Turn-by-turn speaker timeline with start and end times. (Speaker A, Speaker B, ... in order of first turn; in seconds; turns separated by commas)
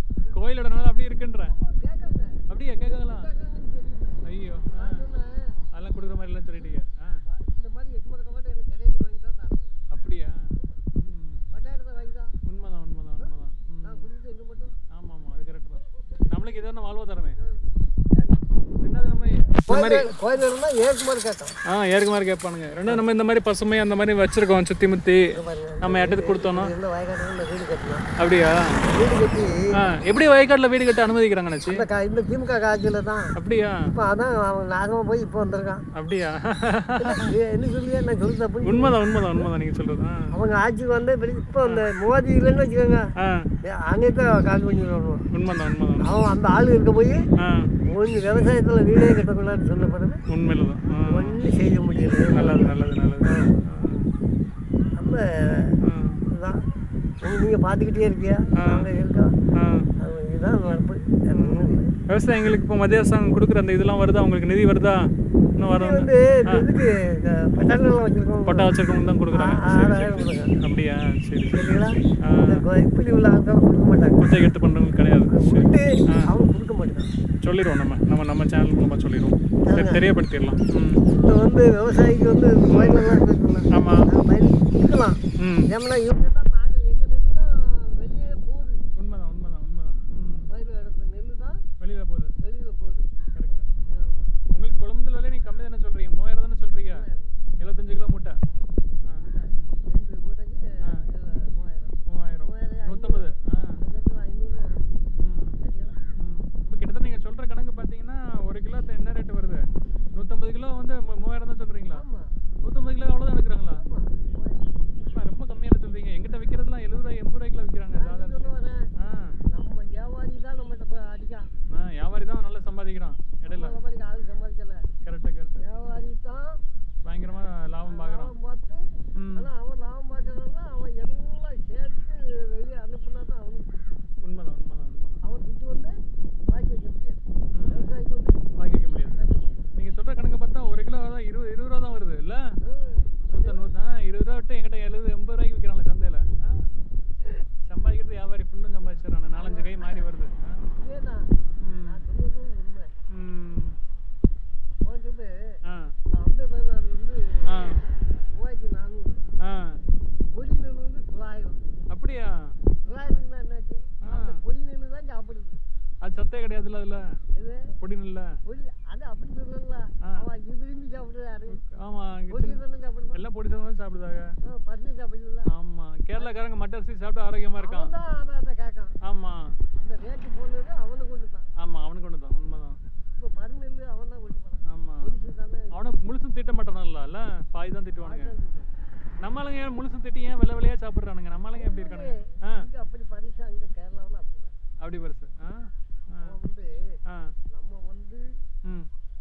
Speaker A: 0.3-1.5, Speaker B: 1.4-4.2, Speaker A: 2.5-3.3, Speaker A: 4.2-5.1, Speaker B: 4.7-5.6, Speaker A: 5.7-7.2, Speaker B: 7.2-9.8, Speaker A: 9.9-11.4, Speaker B: 11.5-12.4, Speaker A: 12.4-14.1, Speaker B: 13.8-14.8, Speaker A: 14.9-17.4, Speaker B: 16.0-16.7, Speaker B: 17.3-21.6, Speaker A: 18.8-20.2, Speaker A: 21.7-26.7, Speaker B: 25.3-28.1, Speaker A: 28.2-28.9, Speaker B: 28.9-29.7, Speaker A: 29.7-31.9, Speaker B: 31.7-33.3, Speaker A: 33.4-33.9, Speaker B: 33.9-35.8, Speaker A: 36.0-37.3, Speaker B: 37.0-39.5, Speaker A: 38.6-40.3, Speaker B: 40.3-43.1, Speaker A: 43.2-43.5, Speaker B: 43.6-45.2, Speaker A: 45.3-46.1, Speaker B: 46.0-47.2, Speaker A: 47.4-47.7, Speaker B: 47.9-50.2, Speaker A: 50.3-51.4, Speaker B: 51.0-53.6, Speaker A: 52.3-54.1, Speaker B: 55.0-56.6, Speaker A: 55.8-56.2, Speaker B: 57.2-59.4, Speaker A: 58.5-59.0, Speaker A: 59.5-59.9, Speaker B: 60.0-61.9, Speaker A: 61.3-66.7, Speaker B: 65.7-68.7, Speaker A: 68.5-72.6, Speaker B: 69.3-70.5, Speaker B: 71.5-74.3, Speaker A: 74.2-76.3, Speaker B: 75.3-77.1, Speaker A: 77.4-81.1, Speaker B: 79.6-80.0, Speaker B: 81.1-88.9, Speaker A: 82.7-83.0, Speaker A: 83.7-84.1, Speaker A: 85.4-85.7, Speaker A: 89.0-90.5, Speaker B: 90.5-91.6, Speaker A: 91.8-92.3, Speaker B: 92.4-93.1, Speaker A: 93.3-97.1, Speaker B: 93.9-94.3, Speaker B: 96.9-97.5, Speaker A: 97.6-98.4, Speaker B: 98.5-103.3, Speaker A: 102.1-103.8, Speaker B: 103.8-105.0, Speaker A: 105.2-105.6, Speaker B: 105.6-106.0, Speaker A: 106.2-112.0, Speaker B: 111.9-112.4, Speaker A: 112.6-113.8, Speaker B: 113.8-114.9, Speaker A: 115.1-119.4, Speaker B: 117.9-118.9, Speaker B: 119.5-121.5, Speaker A: 121.7-123.8, Speaker B: 123.5-124.9, Speaker A: 125.0-125.7, Speaker B: 125.6-126.6, Speaker A: 127.0-128.3, Speaker B: 127.8-134.0, Speaker A: 129.2-129.5, Speaker A: 134.2-135.2, Speaker B: 135.2-135.9, Speaker B: 136.5-138.4, Speaker A: 137.5-137.9, Speaker A: 138.6-139.2, Speaker B: 139.1-139.7, Speaker A: 139.7-142.6, Speaker B: 142.6-143.7, Speaker A: 143.3-146.7, Speaker A: 147.7-150.7, Speaker B: 149.4-150.1, Speaker B: 150.8-152.9, Speaker A: 151.6-152.0, Speaker A: 153.1-153.8, Speaker B: 154.8-157.7, Speaker A: 155.7-155.9, Speaker A: 157.5-157.8, Speaker B: 158.3-159.2, Speaker A: 159.4-159.8, Speaker B: 160.3-161.6, Speaker A: 161.9-163.2, Speaker B: 162.8-165.6, Speaker A: 164.0-164.4, Speaker A: 166.0-167.2, Speaker B: 167.3-167.8, Speaker A: 167.8-168.4, Speaker B: 168.4-171.6, Speaker A: 171.5-172.6, Speaker B: 172.3-173.2, Speaker A: 173.1-174.3, Speaker B: 174.4-175.5, Speaker A: 175.5-177.9, Speaker B: 177.6-179.0, Speaker A: 179.0-179.6, Speaker B: 179.8-181.5, Speaker A: 181.6-182.8, Speaker B: 183.1-186.0, Speaker A: 184.7-185.1, Speaker A: 185.7-188.4, Speaker B: 188.0-188.7, Speaker A: 189.2-192.7, Speaker B: 191.5-194.6, Speaker A: 194.8-196.4, Speaker B: 196.2-197.0, Speaker A: 197.1-197.3, Speaker B: 197.5-198.2, Speaker A: 198.6-198.9